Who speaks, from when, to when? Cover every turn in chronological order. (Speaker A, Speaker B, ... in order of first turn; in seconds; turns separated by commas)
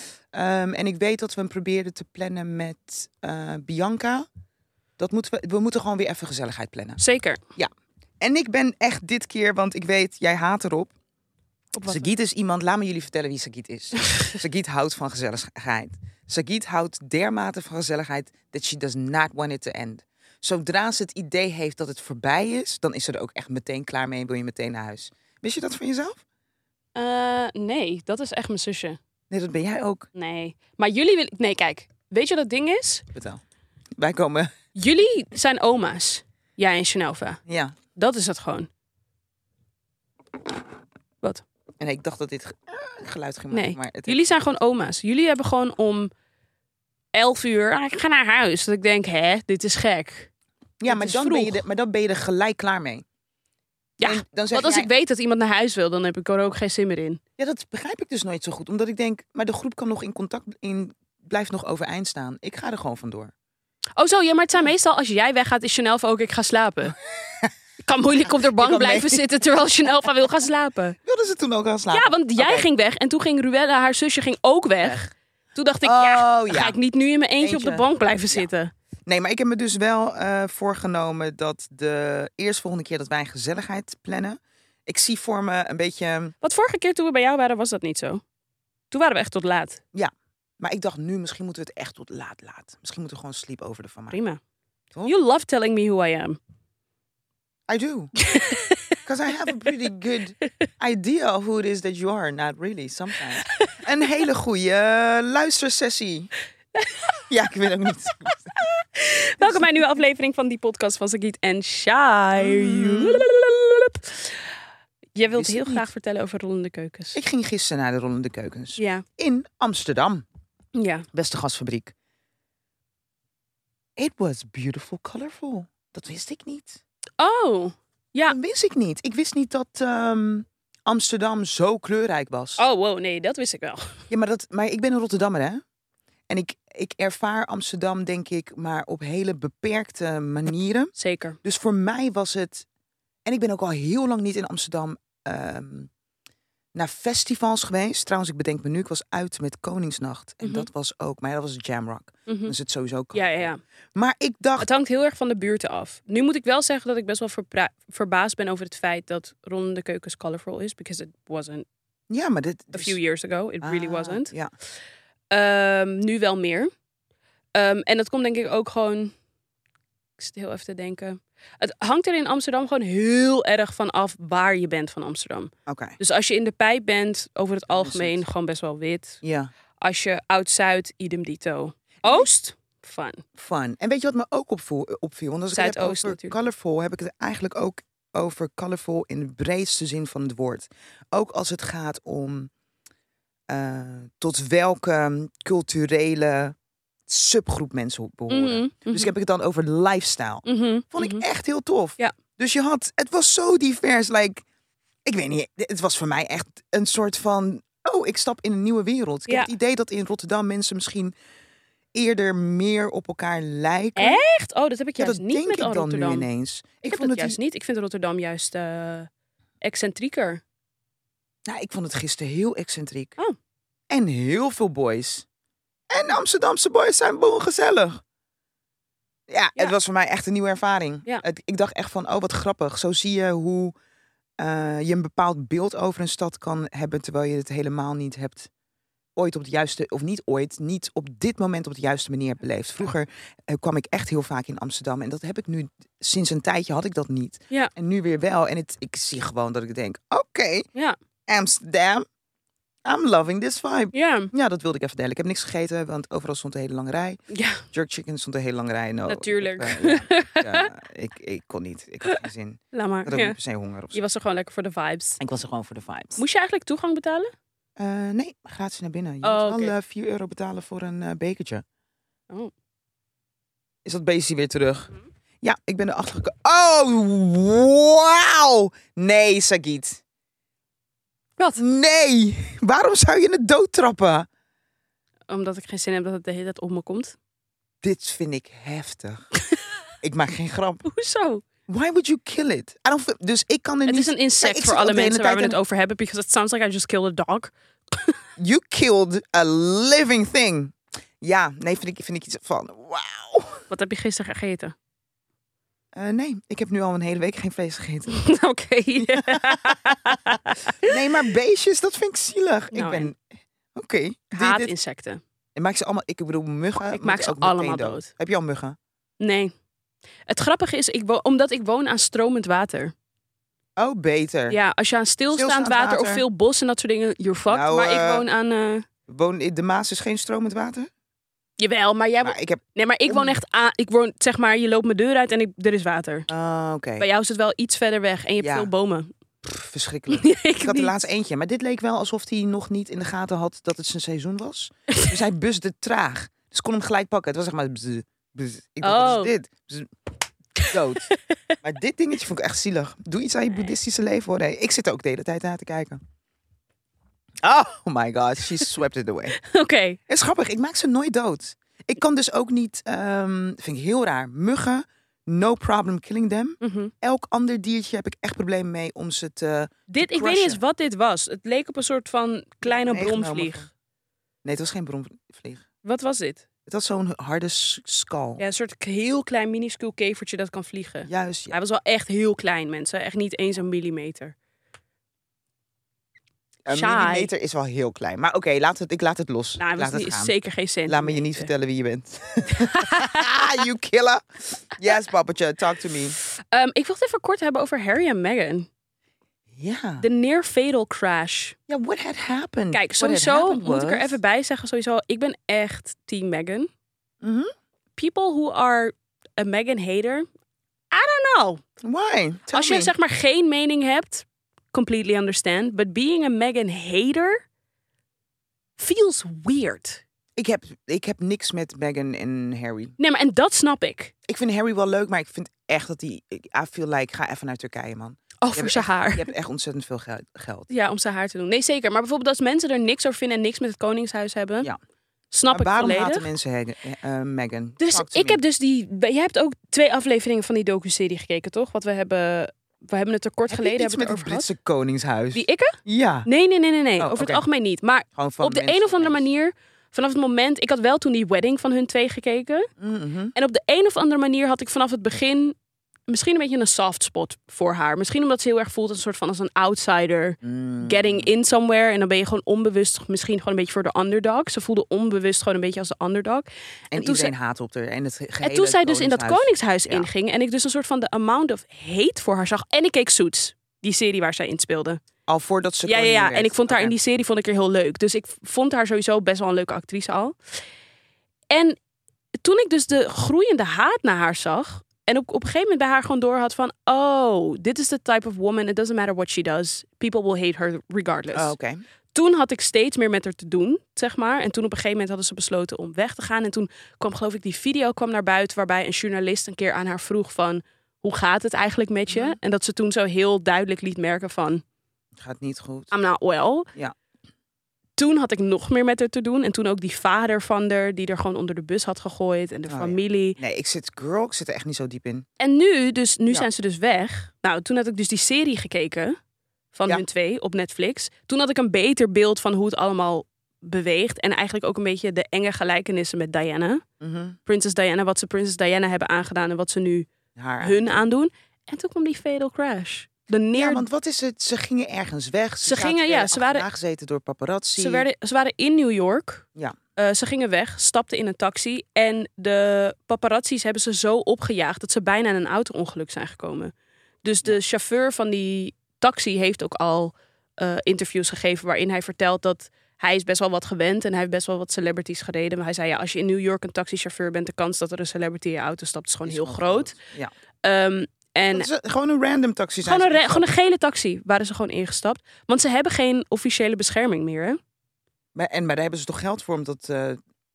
Speaker A: 0.3-4.2, Speaker A: 5.0-7.0, Speaker B: 7.0-7.4, Speaker A: 8.2-10.9, Speaker B: 11.7-12.1, Speaker A: 11.8-26.2, Speaker B: 26.9-29.0, Speaker A: 29.3-30.1, Speaker B: 30.1-33.0, Speaker A: 33.1-33.4, Speaker A: 34.0-34.5, Speaker B: 34.7-37.4, Speaker A: 37.5-37.8, Speaker B: 37.9-38.7, Speaker A: 41.8-44.3, Speaker B: 43.5-46.1, Speaker B: 47.1-50.3, Speaker A: 50.8-53.0, Speaker B: 50.9-51.6, Speaker B: 54.0-57.2, Speaker A: 54.0-54.9, Speaker A: 57.4-63.3, Speaker B: 64.0-67.0, Speaker A: 67.0-67.5, Speaker B: 67.8-71.0, Speaker A: 68.5-69.2, Speaker A: 71.0-72.7, Speaker B: 71.9-75.0, Speaker A: 74.8-75.1, Speaker B: 75.5-78.7, Speaker A: 75.8-76.8, Speaker A: 77.4-78.5, Speaker A: 79.1-86.3, Speaker B: 86.4-88.2, Speaker B: 88.9-89.8, Speaker A: 89.9-94.2, Speaker B: 94.1-94.4, Speaker B: 95.0-96.4, Speaker A: 97.7-98.2, Speaker B: 98.2-99.0, Speaker A: 99.0-106.3, Speaker B: 103.3-103.6, Speaker B: 106.7-107.2, Speaker A: 107.3-108.5, Speaker B: 108.5-114.5, Speaker A: 109.4-109.8, Speaker A: 112.4-113.3, Speaker B: 115.1-117.2, Speaker A: 115.2-115.8, Speaker A: 117.1-120.2, Speaker B: 118.8-119.0, Speaker B: 120.7-121.0, Speaker A: 121.1-121.9, Speaker A: 124.0-126.8, Speaker B: 127.2-128.3, Speaker A: 128.3-132.6, Speaker B: 132.6-134.0, Speaker A: 134.1-135.6, Speaker A: 136.3-142.7, Speaker B: 140.9-141.4, Speaker A: 143.2-145.9, Speaker A: 146.7-154.7, Speaker B: 150.4-150.7, Speaker B: 152.3-152.5, Speaker B: 153.1-153.6, Speaker B: 154.6-161.7, Speaker A: 162.1-163.0, Speaker B: 162.7-164.3, Speaker A: 163.6-164.5, Speaker B: 165.3-166.7, Speaker B: 167.5-169.1, Speaker B: 170.2-179.2, Speaker A: 175.7-176.0, Speaker A: 177.7-178.2, Speaker A: 179.2-179.5, Speaker B: 179.8-183.2, Speaker A: 182.0-182.3, Speaker A: 183.3-192.5, Speaker B: 185.5-186.3, Speaker A: 193.5-196.5, Speaker A: 197.1-204.4, Speaker B: 198.3-199.1, Speaker B: 200.4-201.2, Speaker A: 205.1-211.1, Speaker A: 211.9-214.2, Speaker B: 213.9-216.3, Speaker A: 215.0-217.4, Speaker B: 216.9-219.1, Speaker B: 219.6-220.4, Speaker A: 221.4-223.2, Speaker A: 223.9-225.2, Speaker A: 225.9-228.0, Speaker A: 229.3-233.7, Speaker A: 234.4-238.5, Speaker A: 239.2-250.7, Speaker A: 251.3-252.0, Speaker A: 252.8-264.0, Speaker B: 253.9-254.3, Speaker B: 257.3-257.6, Speaker B: 259.1-260.7, Speaker B: 262.7-263.4, Speaker B: 263.9-265.2, Speaker A: 265.2-266.2, Speaker B: 266.2-267.3, Speaker A: 267.8-271.6, Speaker B: 269.2-269.7, Speaker A: 273.8-280.0, Speaker A: 281.6-284.3, Speaker B: 285.3-287.1, Speaker A: 287.8-289.3, Speaker A: 290.0-290.9, Speaker B: 290.8-291.4, Speaker A: 291.7-295.6, Speaker B: 293.9-298.1, Speaker A: 298.4-303.7, Speaker B: 303.7-304.7, Speaker A: 305.9-308.2, Speaker B: 308.1-310.9, Speaker A: 309.0-313.2, Speaker B: 312.7-313.1, Speaker A: 313.7-314.7, Speaker B: 314.3-315.2, Speaker A: 315.5-318.8, Speaker B: 316.9-318.1, Speaker B: 319.2-319.5, Speaker B: 320.3-322.9, Speaker A: 323.8-324.6, Speaker B: 324.5-328.8, Speaker A: 325.3-326.2, Speaker A: 327.5-328.2, Speaker A: 329.1-330.9, Speaker B: 331.6-336.3, Speaker A: 332.2-333.4, Speaker A: 336.3-337.1, Speaker B: 337.0-339.1, Speaker A: 338.4-338.7, Speaker A: 339.4-349.9, Speaker B: 340.1-340.9, Speaker B: 348.8-349.3, Speaker B: 350.6-351.1, Speaker A: 350.7-356.0, Speaker A: 357.4-359.4, Speaker B: 359.4-360.0, Speaker A: 360.1-370.6, Speaker B: 366.6-366.9, Speaker B: 369.9-373.7, Speaker A: 372.6-373.7, Speaker A: 374.4-375.6, Speaker B: 375.8-376.4, Speaker A: 376.6-378.4, Speaker B: 378.4-384.3, Speaker A: 381.1-381.5, Speaker A: 386.6-390.3, Speaker B: 386.7-387.3, Speaker B: 389.6-391.5, Speaker A: 390.9-396.2, Speaker B: 392.5-393.6, Speaker B: 396.3-398.7, Speaker A: 399.6-400.1, Speaker B: 400.0-401.6, Speaker A: 401.7-404.2, Speaker B: 402.7-406.7, Speaker A: 407.2-407.5, Speaker B: 407.9-410.2, Speaker B: 410.9-411.6, Speaker A: 411.8-412.9, Speaker B: 412.5-417.4, Speaker B: 418.8-420.0, Speaker A: 420.4-422.9, Speaker B: 423.0-424.1, Speaker A: 424.3-430.7, Speaker B: 428.4-429.2, Speaker B: 430.7-434.7, Speaker B: 435.3-436.3, Speaker A: 435.5-438.4, Speaker B: 437.8-444.4, Speaker A: 443.5-446.3, Speaker B: 445.3-452.7, Speaker A: 447.0-447.4, Speaker A: 448.1-449.2, Speaker A: 452.8-453.3, Speaker B: 453.3-455.6, Speaker B: 456.1-467.3, Speaker A: 460.4-461.3, Speaker A: 466.9-470.1, Speaker B: 468.4-475.0, Speaker A: 475.3-476.9, Speaker B: 475.9-480.4, Speaker B: 481.5-481.8, Speaker B: 482.4-491.5, Speaker A: 491.3-491.8, Speaker B: 492.1-504.6, Speaker A: 502.1-502.4, Speaker A: 505.1-505.9, Speaker B: 505.9-506.7, Speaker B: 508.0-513.4, Speaker A: 512.7-515.2, Speaker B: 515.4-519.2, Speaker B: 519.7-526.8, Speaker A: 527.0-527.4, Speaker B: 527.5-530.1, Speaker A: 530.4-531.0, Speaker B: 530.6-533.9, Speaker A: 533.5-538.0, Speaker B: 535.6-536.6, Speaker B: 537.8-546.7, Speaker B: 547.2-559.9, Speaker A: 559.2-560.3, Speaker B: 560.6-561.7, Speaker A: 561.5-563.5, Speaker B: 562.8-567.6, Speaker A: 568.3-570.2